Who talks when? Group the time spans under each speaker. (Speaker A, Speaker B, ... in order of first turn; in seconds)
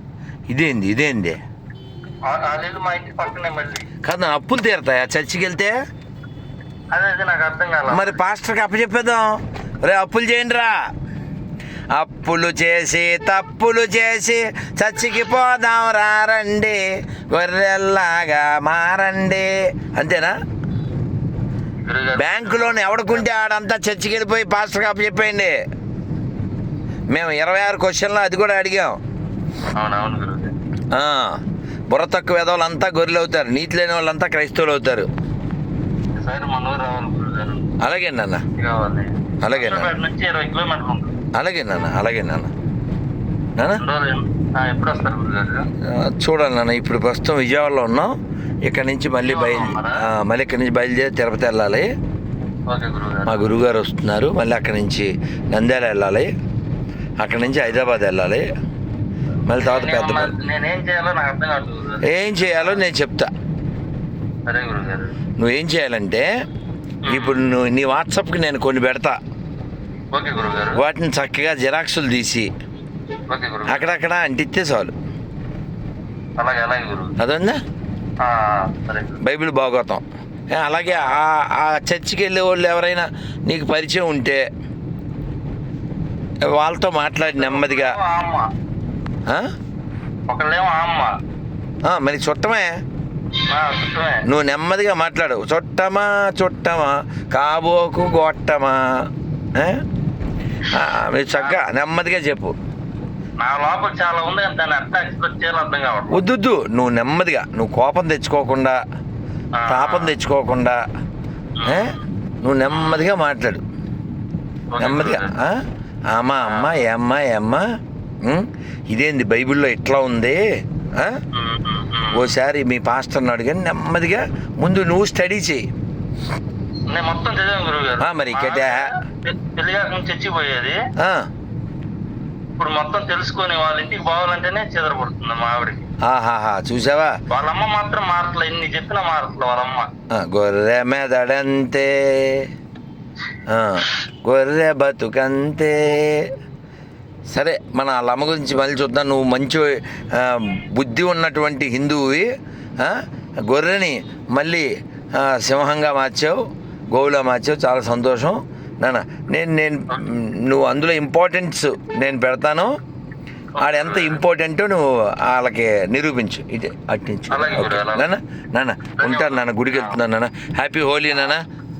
Speaker A: 0.5-1.4, 4.0-5.7, 7.9-9.3, 9.8-10.7, 11.9-20.3, 22.2-25.5, 27.1-29.0, 30.9-35.1, 37.8-38.4, 39.4-39.9, 41.4-42.5, 45.9-48.1, 48.7-51.9, 53.3-56.3, 57.2-58.4, 59.5-60.3, 62.0-63.3, 65.4-66.2, 67.1-69.2, 70.8-72.5, 73.7-74.9, 77.2-77.6, 79.2-84.4, 86.5-88.0, 91.9-92.7, 94.2-99.0, 99.5-99.8, 100.7-102.5, 106.1-108.8, 109.7-110.8, 111.6-113.6, 114.8-115.5, 116.1-117.6, 118.2-120.4, 122.1-125.7, 128.0-128.9, 131.0-131.3, 136.1-137.1, 140.1-142.5, 143.5-146.3, 147.3-156.4, 156.9-162.7, 163.6-171.4
Speaker B: 2.2-3.9, 6.9-8.2, 21.8-23.2, 29.8-30.5, 36.2-37.6, 38.6-41.1, 43.8-45.6, 49.2-50.0, 52.7-53.5, 59.6-62.8, 64.5-65.1, 67.0-67.4, 70.1-70.8, 73.3-73.9, 76.4-77.1, 78.2-79.2, 80.9-81.2, 87.2-88.5, 90.3-91.1, 93.5-94.2, 101.3-101.6, 103.4-106.2, 109.6-110.2, 111.6-111.9, 114.7-115.3, 116.5-116.8, 121.3-122.2, 126.9-130.8, 132.6-135.9, 137.3-139.9, 163.5-164.2, 167.3-168.1, 169.0-170.0